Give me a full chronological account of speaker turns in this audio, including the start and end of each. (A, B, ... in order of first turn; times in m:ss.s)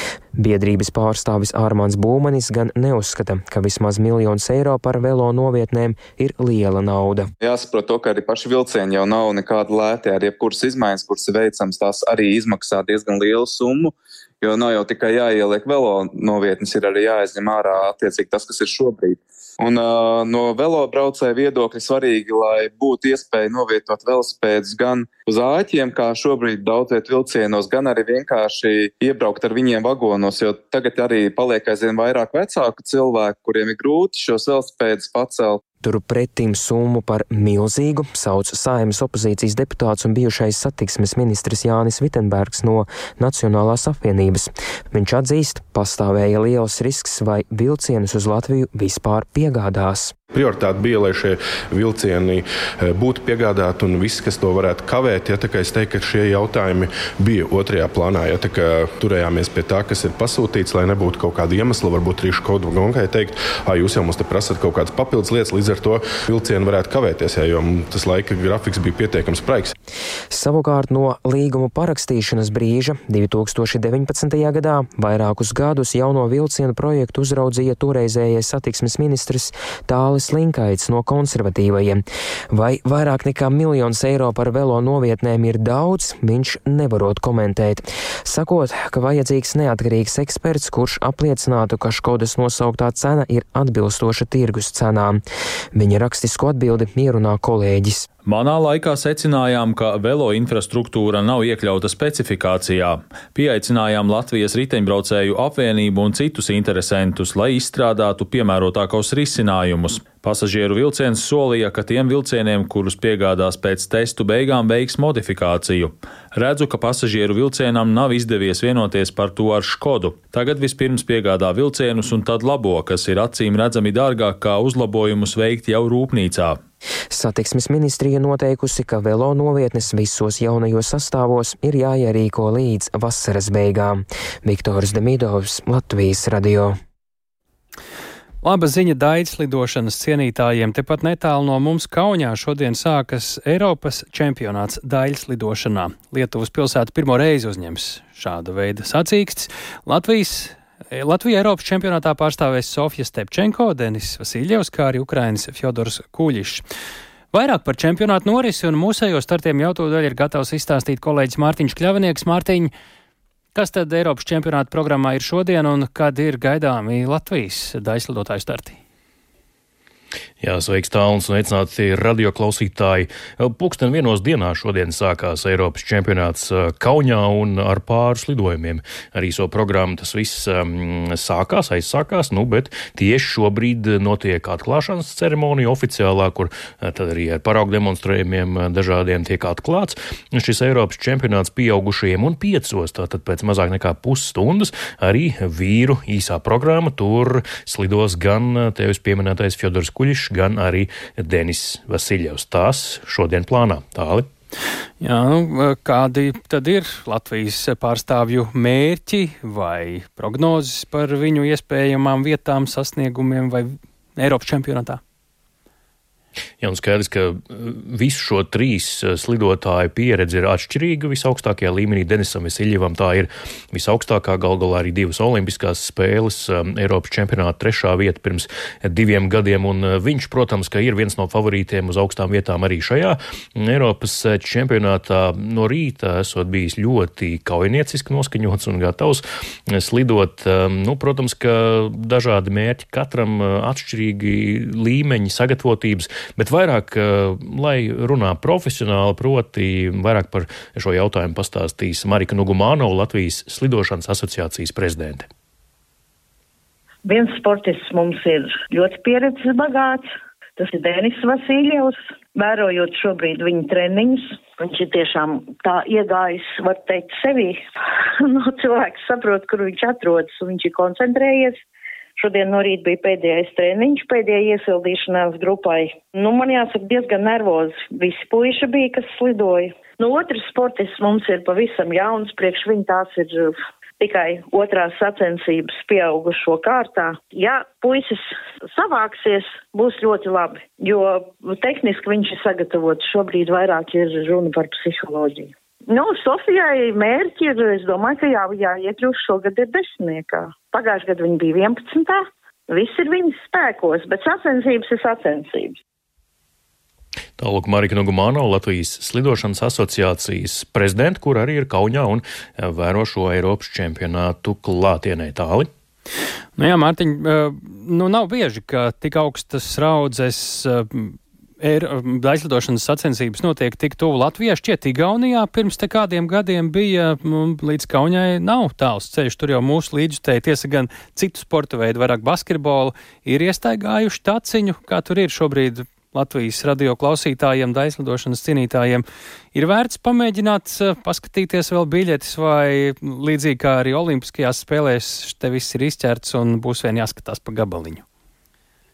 0:00.4-0:07.3 A
0:07.4-0:35.6 B
0:35.8-0:50.2 A
0:50.3-1:09.7 C
1:10.3-1:35.2 A
1:35.8-1:38.1 A
1:38.3-2:06.6 D
2:07.1-2:16.8 A
2:18.4-2:36.6 E
2:37.3-2:42.7 E
2:43.6-2:48.8 E
2:50.4-3:24.3 F
3:25.0-3:35.0 E
3:36.6-4:15.3 F
4:17.0-4:27.6 G
4:28.2-4:31.6 G
4:32.2-5:05.8 G
5:07.4-5:15.7 F
5:16.6-5:48.0 E